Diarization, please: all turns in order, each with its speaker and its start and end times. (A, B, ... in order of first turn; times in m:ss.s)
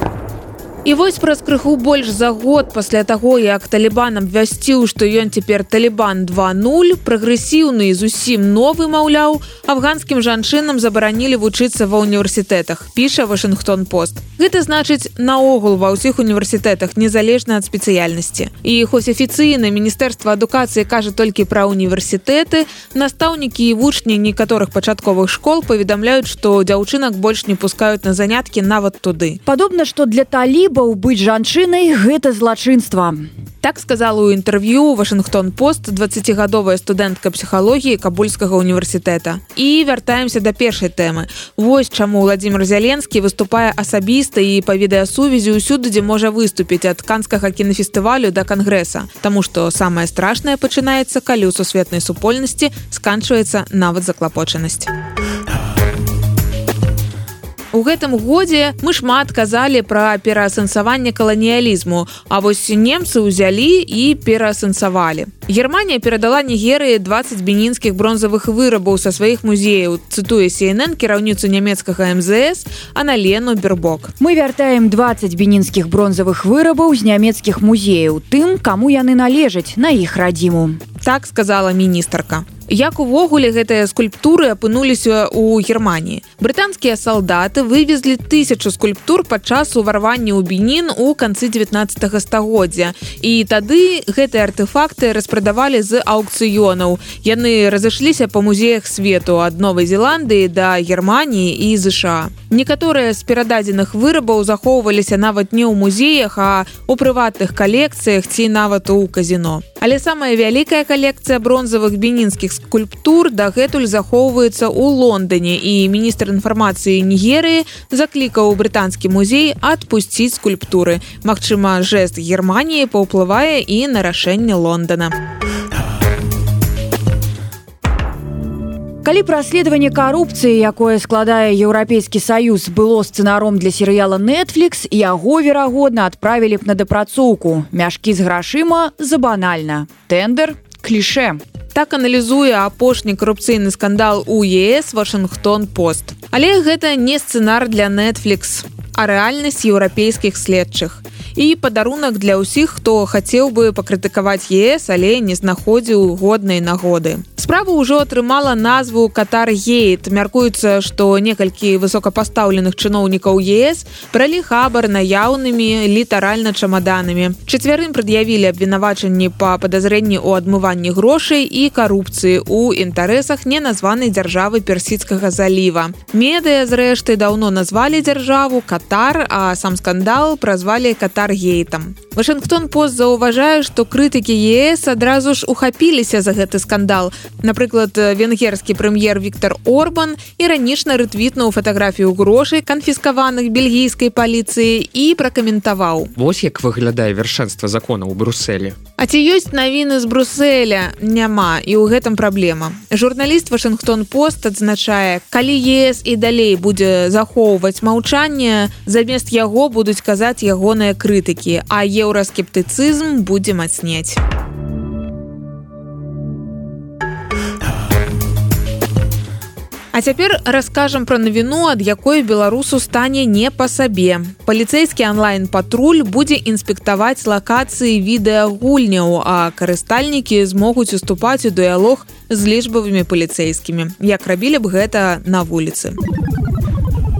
0:00.8-0:29.4 A
0:29.4-0:33.2 B
0:33.6-0:54.9 A
0:57.7-1:14.1 A
1:14.2-1:20.8 B
1:21.0-2:05.1 A
2:09.0-2:21.4 B
2:21.7-3:16.1 A
3:16.2-3:18.8 C
3:19.0-3:34.2 A
3:39.9-3:56.0 A